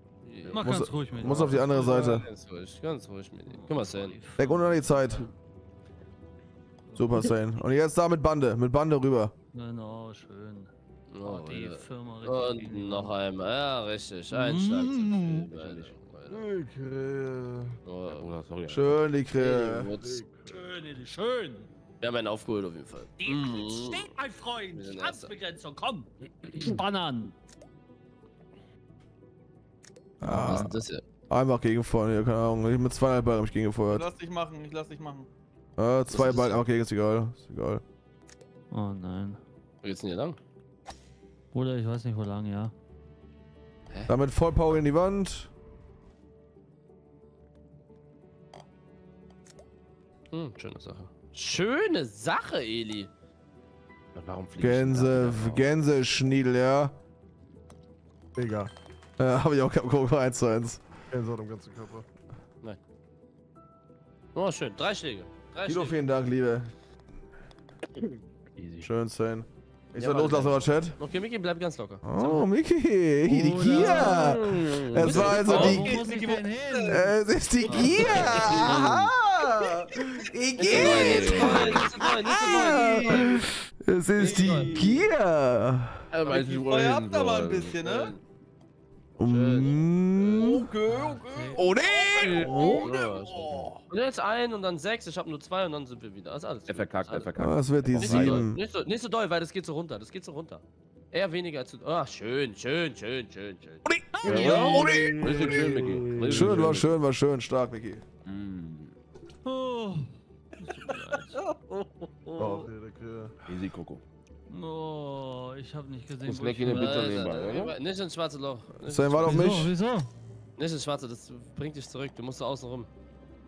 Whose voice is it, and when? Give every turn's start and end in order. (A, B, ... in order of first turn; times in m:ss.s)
0:00.2-0:04.2 A
0:00.5-0:02.1 B
0:00.6-0:02.2 C
0:03.5-0:05.3 B
0:04.4-0:05.3 C
0:06.9-0:07.3 B
0:07.0-0:09.3 C
0:09.5-0:10.7 B
0:11.1-0:16.5 A
0:11.2-0:13.1 B
0:14.3-0:15.5 B
0:15.4-0:16.0 D
0:16.3-0:17.8 E
0:17.8-0:18.4 A
0:18.1-0:19.0 D
0:18.7-0:19.9 C
0:19.4-0:20.2 A
0:19.8-0:20.6 E
0:20.5-0:21.7 B
0:22.0-0:24.1 A
0:23.2-0:27.3 B
0:24.7-0:25.3 A
0:30.2-0:30.7 C
0:30.2-0:31.0 A
0:31.3-0:34.1 C
0:33.9-0:35.3 F
0:35.8-0:37.8 C
0:36.1-0:36.6 A
0:38.7-0:39.4 B
0:39.8-0:40.4 A
0:41.5-0:42.7 B
0:44.1-0:45.5 C
0:50.3-0:53.1 A
0:54.2-0:55.7 D
0:54.6-0:57.0 C
0:58.4-0:58.7 E
0:59.2-1:00.8 C
1:01.1-1:02.1 E
1:04.3-1:06.0 A
1:05.6-1:06.7 C
1:08.6-1:08.9 D
1:08.8-1:11.0 C
1:10.0-1:12.4 A
1:12.0-1:16.1 C
1:13.3-1:14.5 B
1:13.8-1:15.5 D
1:15.0-1:15.8 A
1:15.3-1:17.1 F
1:15.4-1:17.2 B
1:16.8-1:26.0 C
1:17.6-1:18.8 F
1:17.6-1:19.1 A
1:20.6-1:23.4 A
1:20.7-1:21.8 D
1:21.0-1:21.8 F
1:22.4-1:23.3 F
1:24.2-1:25.0 A
1:24.2-1:25.0 F
1:26.1-1:28.2 A
1:26.2-1:28.1 F
1:29.2-1:29.9 A
1:29.2-1:30.7 C
1:30.2-1:33.7 F
1:30.9-1:31.7 B
1:31.5-1:32.9 C
1:32.2-1:37.3 A
1:36.7-1:38.5 D
1:37.4-1:38.6 C
1:37.9-1:44.7 A
1:43.9-1:45.7 C
1:44.2-1:45.0 B
1:44.3-1:46.8 E
1:44.3-1:46.9 D
1:46.3-1:48.0 C
1:48.2-1:49.0 D
1:49.4-1:51.4 B
1:50.9-1:52.7 F
1:52.4-1:53.4 E
1:53.5-1:54.0 D
1:54.5-1:57.3 B
1:56.3-1:57.8 D
1:56.7-1:59.7 A
1:58.8-1:59.7 C
1:59.2-2:00.1 B
2:00.6-2:02.9 A